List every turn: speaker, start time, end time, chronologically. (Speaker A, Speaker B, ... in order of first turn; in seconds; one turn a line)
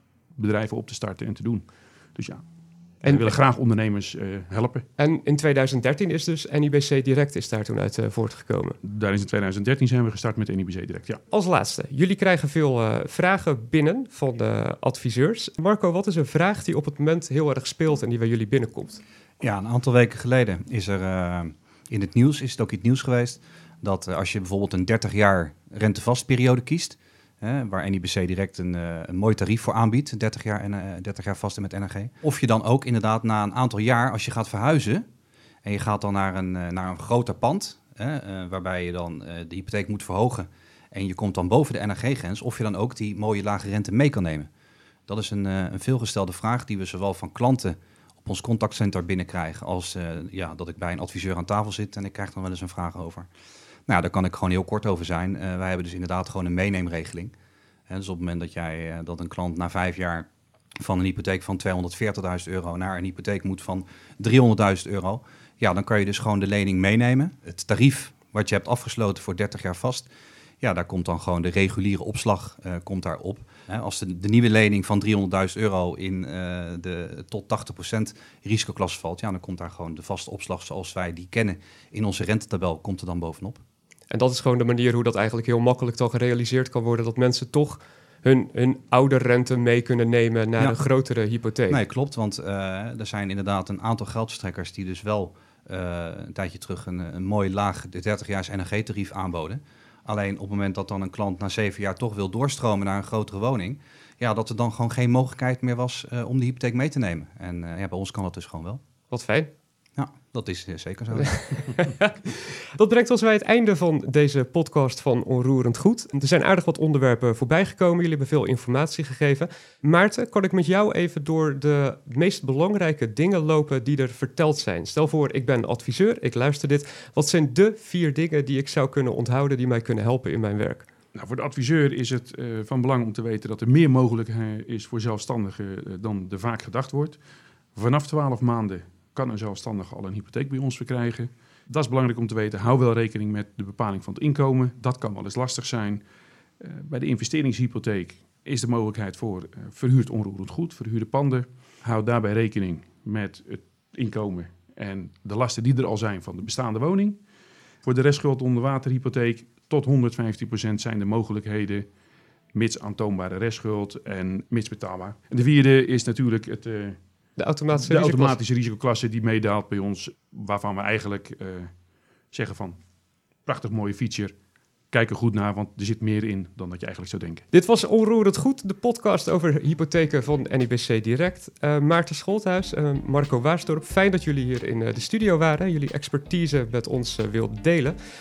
Speaker A: 0.4-2.4
Speaker A: 3.0-4.8
Speaker B: 3.0-3.4
Speaker B: 5.0-8.8
Speaker A: 8.8-11.2
Speaker B: 11.3-19.0
Speaker C: 19.4-35.0
Speaker C: 35.6-44.5
Speaker C: 45.1-53.3
Speaker C: 53.9-57.3
Speaker C: 57.9-60.3
Speaker C: 60.8-70.1
Speaker C: 70.6-83.6
Speaker B: 84.1-91.8
Speaker C: 91.7-108.8
Speaker B: 109.1-109.5
Speaker C: 110.0-111.6
Speaker B: 111.4-130.9
Speaker A: 131.2-137.2
Speaker A: 137.8-146.0
Speaker A: 146.6-157.2
Speaker A: 157.8-161.9
Speaker A: 162.5-167.0
Speaker B: 167.4-168.4
Speaker A: 167.7-171.7
Speaker A: 172.3-172.8
Speaker A: 173.5-174.3
Speaker A: 174.9-177.4
Speaker B: 177.5-188.0